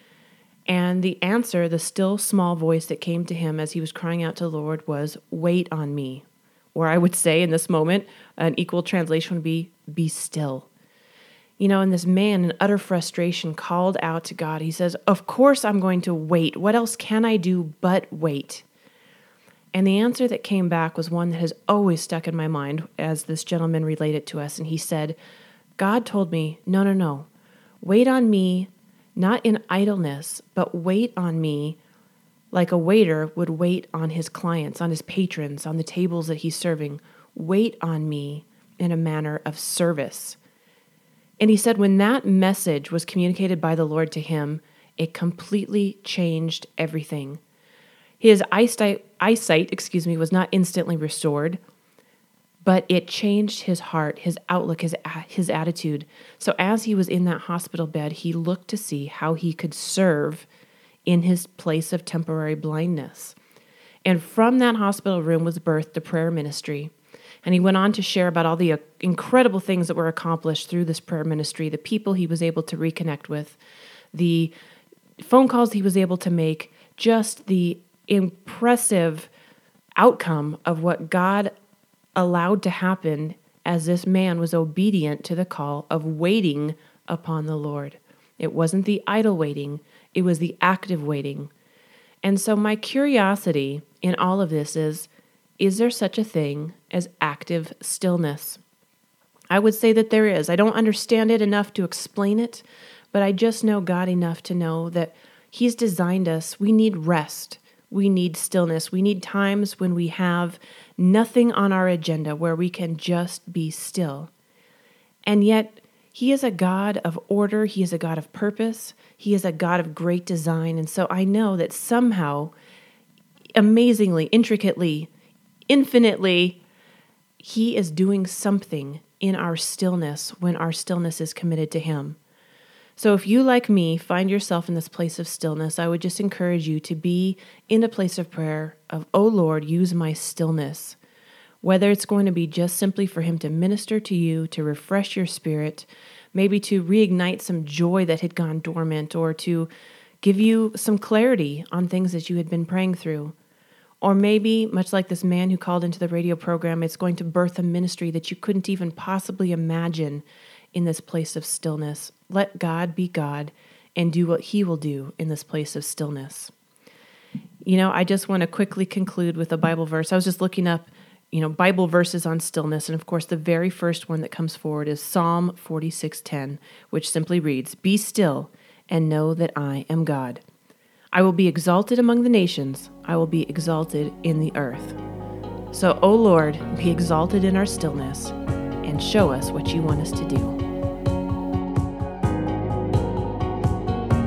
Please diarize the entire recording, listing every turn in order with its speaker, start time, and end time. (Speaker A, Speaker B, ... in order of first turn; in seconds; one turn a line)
Speaker A: 0.7-10.7
Speaker A: 11.6-18.6
Speaker A: 19.7-25.2
Speaker A: 25.8-27.3
Speaker A: 27.8-31.8
Speaker A: 32.5-40.4
Speaker A: 41.4-47.4
Speaker A: 48.2-51.6
Speaker A: 52.6-60.5
Speaker A: 61.0-63.4
Speaker A: 64.0-66.9
Speaker A: 67.4-73.6
Speaker A: 74.1-74.5
Speaker A: 75.2-79.3
Speaker A: 80.0-81.5
Speaker A: 82.2-91.5
Speaker A: 92.2-98.6
Speaker A: 99.5-114.3
Speaker A: 115.2-122.5
Speaker A: 123.5-125.1
Speaker A: 125.7-126.6
Speaker A: 127.4-132.2
Speaker A: 133.0-141.0
Speaker A: 141.6-149.7
Speaker A: 150.2-153.3
Speaker A: 154.0-166.5
Speaker A: 167.6-180.4
Speaker A: 181.1-185.0
Speaker A: 185.7-190.6